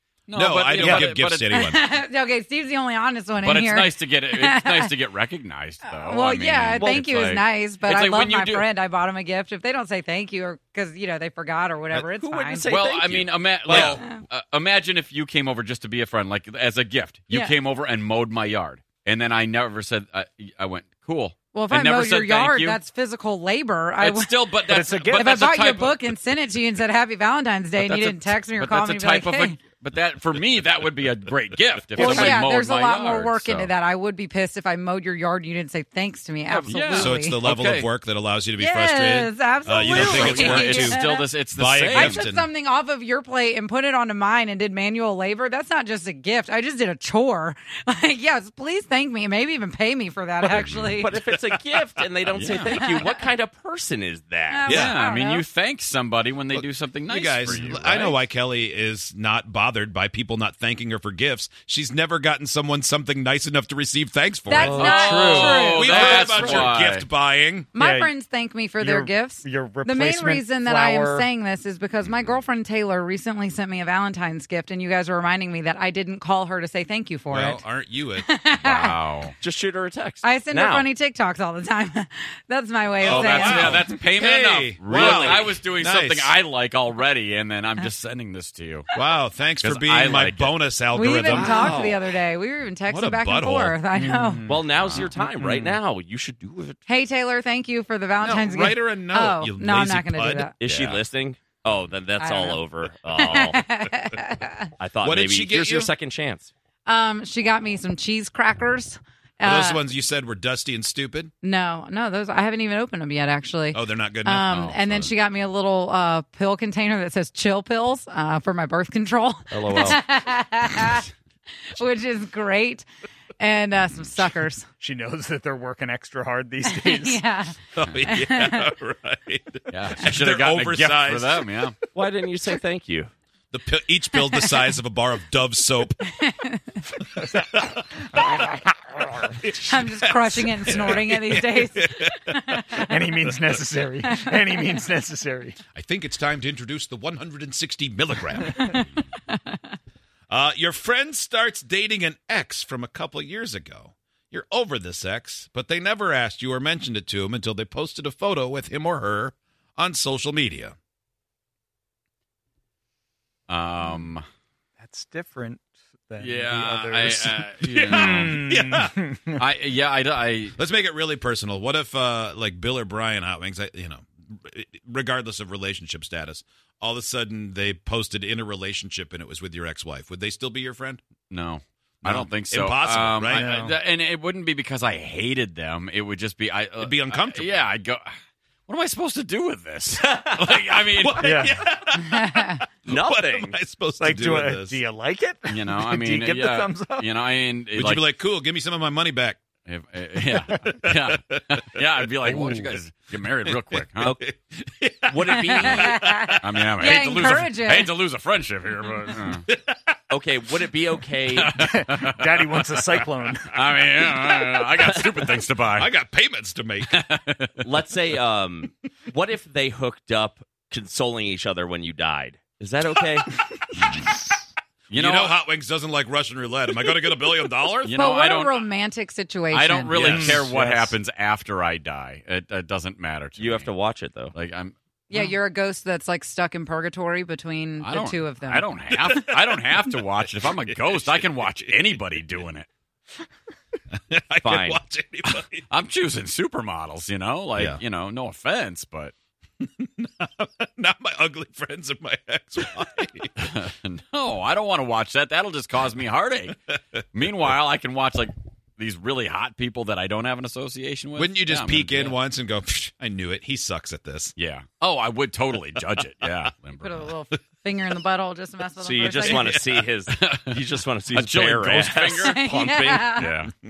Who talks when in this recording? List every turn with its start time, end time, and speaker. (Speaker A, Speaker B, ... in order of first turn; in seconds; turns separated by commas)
Speaker A: 0.3-1.8, Speaker B: 0.3-1.9, Speaker C: 1.5-4.9, Speaker A: 3.4-8.7, Speaker C: 5.8-12.7, Speaker D: 6.8-7.0, Speaker D: 11.9-13.9, Speaker A: 12.7-22.8, Speaker B: 13.7-14.0, Speaker C: 13.8-14.2, Speaker C: 17.3-17.6, Speaker C: 21.5-24.5, Speaker A: 24.0-26.1, Speaker E: 24.7-25.4, Speaker C: 25.1-29.6, Speaker A: 27.8-33.7, Speaker C: 32.0-37.4, Speaker A: 36.5-37.9, Speaker B: 36.9-41.0, Speaker C: 38.6-41.3, Speaker A: 39.8-42.2, Speaker B: 41.5-42.5, Speaker C: 41.9-51.1, Speaker A: 50.5-50.9, Speaker D: 51.0-54.7, Speaker B: 51.1-51.6, Speaker A: 52.3-52.8, Speaker C: 52.7-53.2, Speaker C: 54.5-55.5, Speaker A: 54.6-58.2, Speaker B: 54.7-55.0, Speaker B: 56.5-67.7, Speaker C: 64.5-66.7, Speaker A: 64.7-67.1, Speaker C: 67.7-77.7, Speaker E: 67.8-68.1, Speaker E: 68.8-71.3, Speaker B: 77.3-78.3, Speaker C: 78.2-79.0, Speaker A: 78.6-79.3, Speaker D: 79.4-80.9, Speaker C: 80.2-83.8, Speaker B: 83.0-86.3, Speaker A: 83.0-88.9, Speaker D: 84.8-85.6, Speaker B: 89.0-92.1, Speaker A: 89.6-90.6, Speaker C: 90.9-94.5, Speaker B: 92.9-93.8, Speaker E: 94.0-94.6, Speaker D: 94.5-96.8, Speaker C: 96.9-100.5, Speaker B: 98.2-100.5, Speaker D: 100.6-103.7, Speaker A: 100.6-101.0, Speaker C: 102.2-102.6, Speaker C: 103.1-104.7, Speaker D: 104.8-106.5, Speaker B: 105.0-105.9, Speaker C: 106.9-109.8, Speaker B: 109.4-111.3, Speaker C: 111.4-121.1, Speaker B: 113.7-115.1, Speaker D: 119.5-120.0, Speaker C: 121.7-122.9, Speaker C: 123.4-124.7, Speaker E: 124.8-127.2, Speaker C: 126.6-128.7, Speaker B: 127.8-131.5, Speaker A: 129.7-131.8, Speaker D: 131.9-133.1, Speaker B: 133.5-136.0, Speaker C: 136.2-136.8, Speaker B: 137.3-137.8, Speaker E: 138.1-139.3, Speaker B: 139.3-142.8, Speaker C: 139.6-142.8, Speaker E: 142.9-145.6, Speaker B: 145.7-148.8, Speaker C: 148.6-149.6, Speaker B: 150.3-160.8, Speaker A: 163.5-164.2, Speaker E: 164.8-169.4, Speaker A: 166.2-168.5, Speaker B: 167.9-168.9, Speaker A: 169.3-170.6, Speaker B: 170.6-181.0, Speaker A: 181.3-188.1, Speaker B: 182.0-183.6, Speaker E: 183.3-183.8, Speaker B: 186.8-187.6, Speaker A: 188.7-191.3, Speaker B: 190.4-194.8, Speaker E: 191.2-191.6, Speaker C: 192.1-192.5, Speaker D: 192.8-193.6, Speaker E: 194.0-197.1, Speaker A: 195.5-198.1, Speaker B: 197.7-199.4, Speaker A: 199.7-204.2, Speaker B: 202.2-202.8, Speaker B: 203.8-207.0, Speaker D: 204.0-204.3, Speaker D: 205.1-206.0, Speaker C: 205.5-207.9, Speaker A: 206.4-209.5, Speaker B: 209.5-209.9, Speaker D: 210.1-211.6, Speaker A: 211.3-215.9, Speaker E: 211.6-213.5, Speaker D: 214.8-215.4, Speaker B: 215.8-216.9, Speaker A: 216.9-217.7, Speaker D: 217.6-223.3, Speaker A: 224.9-225.4, Speaker B: 224.9-227.9, Speaker A: 227.8-228.6, Speaker C: 227.9-230.1, Speaker A: 229.5-233.8, Speaker B: 230.0-230.5, Speaker E: 230.2-230.9, Speaker D: 233.4-234.3, Speaker A: 234.3-234.7, Speaker C: 235.1-238.7, Speaker A: 237.8-242.7, Speaker B: 239.1-239.4, Speaker B: 240.9-241.2, Speaker B: 243.9-245.6, Speaker D: 244.4-244.8, Speaker A: 245.3-249.1, Speaker B: 249.6-253.3, Speaker A: 253.4-262.2, Speaker B: 261.2-264.3, Speaker A: 264.4-267.1, Speaker C: 266.8-269.6, Speaker D: 268.8-273.1, Speaker B: 269.2-269.8, Speaker A: 270.1-273.5, Speaker C: 272.1-273.3